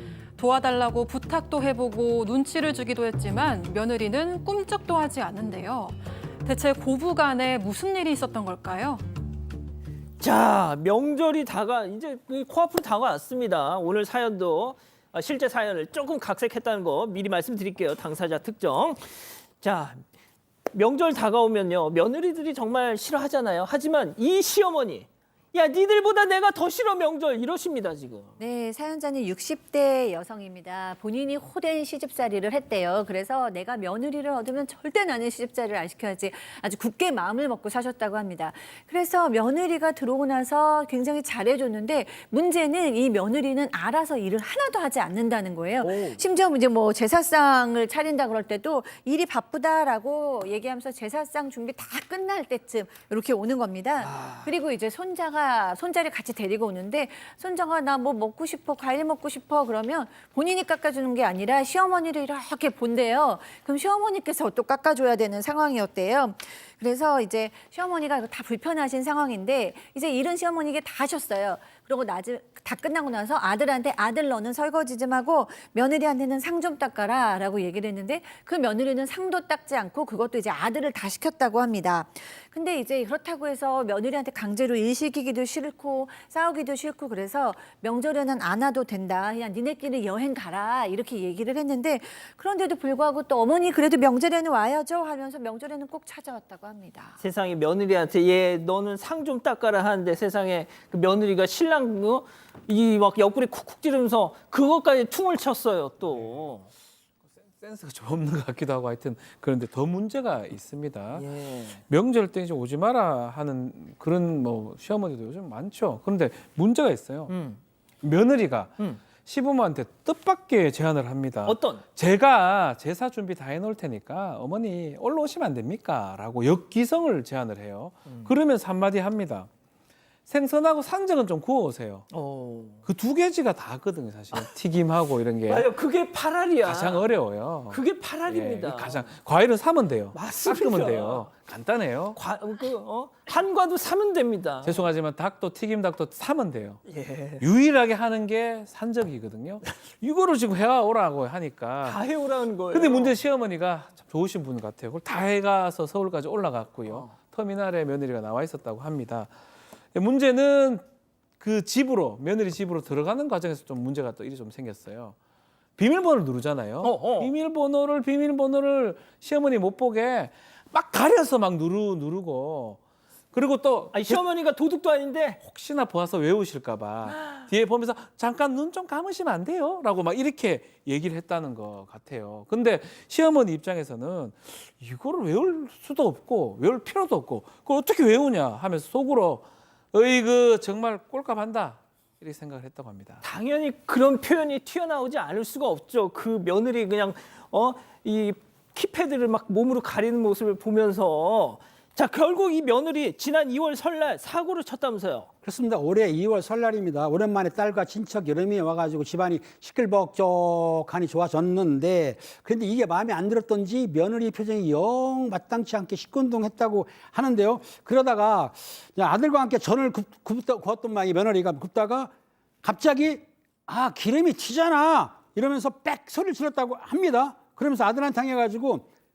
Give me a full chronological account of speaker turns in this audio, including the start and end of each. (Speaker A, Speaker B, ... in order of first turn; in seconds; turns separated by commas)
Speaker A: 0.4-9.0, Speaker B: 10.2-20.0, Speaker B: 20.7-28.3, Speaker C: 28.4-97.2, Speaker B: 45.8-46.2, Speaker B: 54.0-54.5, Speaker B: 97.2-106.7, Speaker D: 107.6-111.3, Speaker B: 111.2-111.8, Speaker D: 111.9-117.3, Speaker B: 117.3-117.6, Speaker D: 118.0-129.5, Speaker B: 121.5-121.8, Speaker D: 130.3-132.1, Speaker B: 132.1-132.8, Speaker D: 132.9-135.7, Speaker B: 135.5-137.1, Speaker D: 136.6-142.2, Speaker B: 137.7-139.1, Speaker B: 140.1-141.3, Speaker B: 142.2-144.9, Speaker D: 144.6-146.8, Speaker B: 146.9-147.4, Speaker D: 147.4-152.0, Speaker B: 151.8-153.2, Speaker D: 152.7-159.3, Speaker D: 159.9-160.8, Speaker D: 161.4-165.2, Speaker D: 165.8-172.8, Speaker B: 166.8-167.3, Speaker D: 173.3-174.2, Speaker B: 173.9-175.4, Speaker D: 175.4-193.2, Speaker B: 193.2-205.3, Speaker E: 205.4-222.1, Speaker E: 222.6-228.9